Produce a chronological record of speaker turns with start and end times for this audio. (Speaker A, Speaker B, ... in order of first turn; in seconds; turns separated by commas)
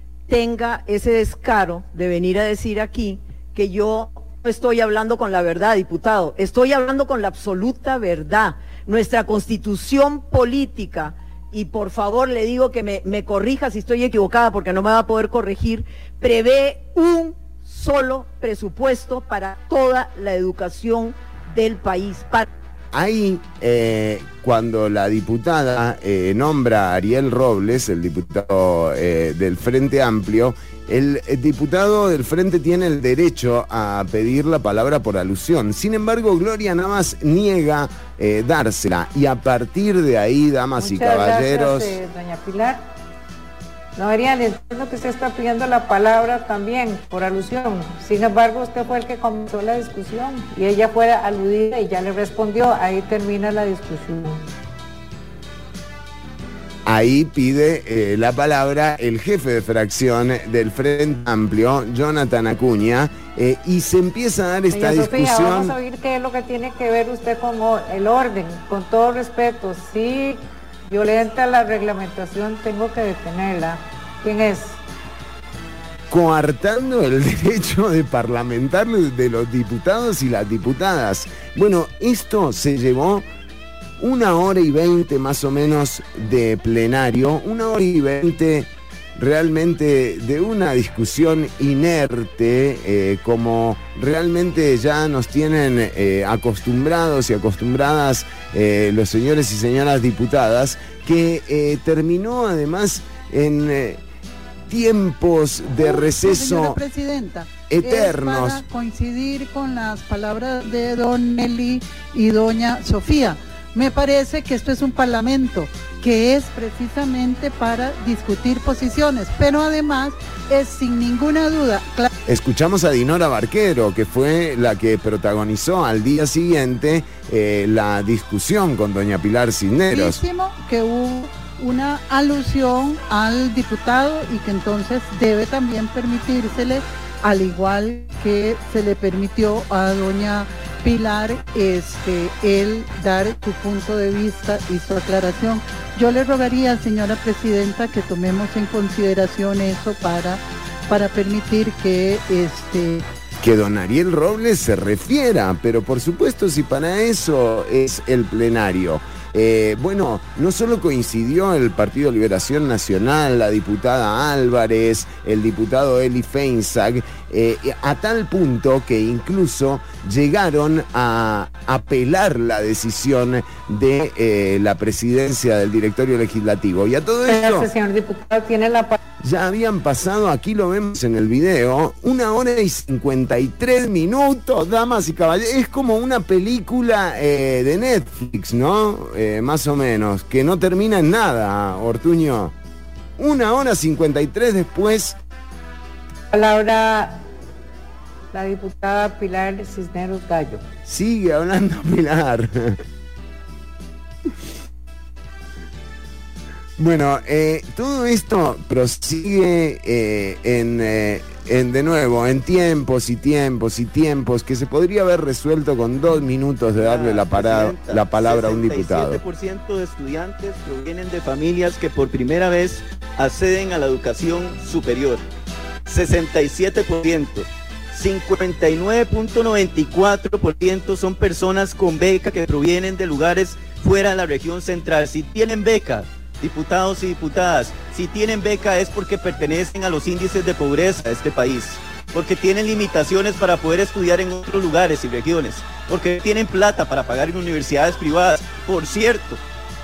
Speaker A: 0.3-22.5, Speaker B: 22.9-42.0, Speaker C: 40.8-42.8, Speaker C: 44.0-54.4, Speaker B: 56.9-65.8, Speaker C: 64.7-74.8, Speaker B: 76.1-83.3, Speaker B: 84.0-104.0, Speaker B: 104.7-106.8, Speaker D: 105.8-122.1, Speaker B: 107.7-108.6, Speaker B: 122.3-130.2, Speaker D: 129.9-153.1, Speaker B: 153.4-177.7, Speaker C: 177.2-179.0, Speaker B: 179.2-192.6, Speaker B: 193.2-195.2, Speaker C: 196.3-197.2, Speaker C: 198.3-200.6, Speaker B: 200.8-202.8, Speaker B: 206.8-219.2, Speaker E: 216.8-225.2, Speaker E: 225.9-249.4